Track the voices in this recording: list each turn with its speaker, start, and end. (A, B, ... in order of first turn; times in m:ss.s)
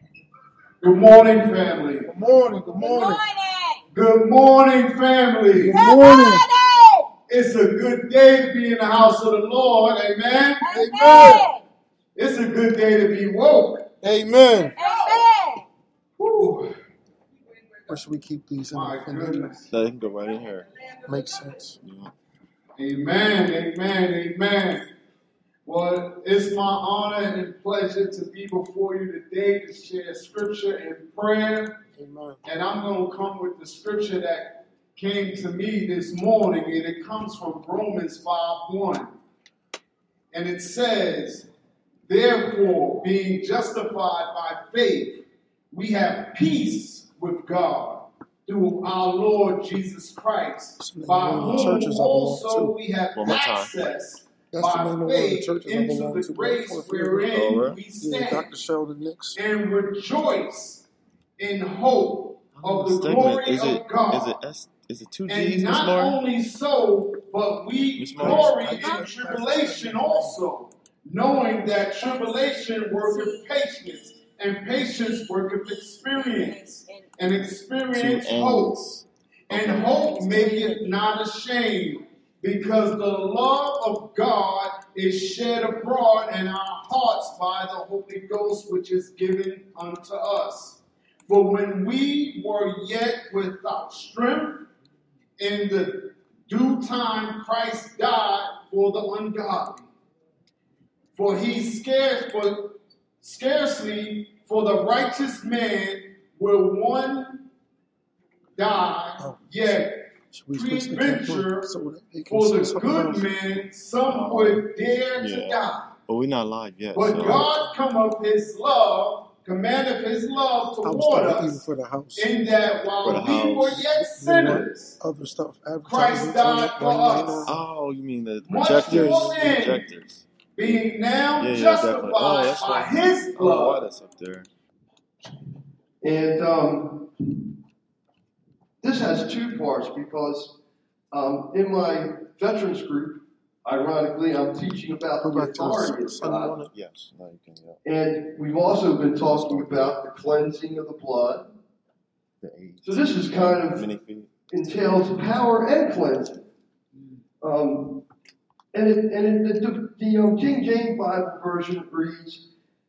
0:00.8-0:02.1 A
0:02.0-0:03.2 B
0:02.8-0:03.9 C
0:03.9-0:05.8 A
0:05.5-0:06.5 B
0:05.7-0:07.1 C
0:07.3-0:10.7 A
0:10.6-0:11.7 C
0:10.7-0:11.5 B
0:12.2-0:13.9 A
0:14.0-0:14.8 B
0:14.8-0:15.7 C
0:16.2-0:16.7 A
0:17.9-0:19.5 B
0:18.7-0:19.7 A
0:19.7-0:20.7 D
0:21.0-0:21.8 B
0:21.8-0:22.1 D
0:22.8-0:24.9 A
0:25.6-0:31.8 A
0:32.0-0:32.4 B
0:32.4-0:39.1 A
0:40.3-0:41.5 A
0:42.1-0:58.5 A
0:50.8-0:52.8 B
0:51.4-0:51.9 D
0:53.1-0:53.8 D
0:54.5-0:57.3 B
0:57.3-0:57.8 D
0:58.0-0:59.4 B
0:59.4-1:00.9 A
1:01.4-1:04.4 A
1:02.6-1:06.2 D
1:05.3-1:18.8 A
1:08.0-1:09.0 D
1:08.2-1:10.4 B
1:08.8-1:09.1 C
1:12.0-1:14.2 C
1:14.8-1:17.1 C
1:17.9-1:19.9 D
1:19.5-1:34.7 A
1:19.8-1:21.0 C
1:35.4-1:39.8 A
1:41.2-1:47.4 A
1:48.6-1:51.7 A
1:49.2-1:49.4 B
1:50.3-1:53.3 B
1:52.2-1:55.9 A
1:54.0-1:57.5 D
1:57.0-2:05.0 A
1:57.4-1:57.7 B
2:00.8-2:02.4 B
2:03.0-2:03.9 D
2:04.0-2:07.6 B
2:05.8-2:07.6 A
2:07.5-2:10.3 D
2:08.5-2:09.9 A
2:08.9-2:09.4 B
2:10.6-2:13.9 A
2:11.4-2:14.5 D
2:16.0-2:17.1 E
2:18.8-2:20.6 E
2:21.1-2:26.6 E
2:25.2-2:26.7 B
2:26.7-2:27.8 D
2:27.8-2:31.5 E
2:32.4-2:34.3 D
2:32.8-2:33.9 E
2:34.5-2:36.5 E
2:37.4-2:38.0 E
2:38.7-2:42.5 E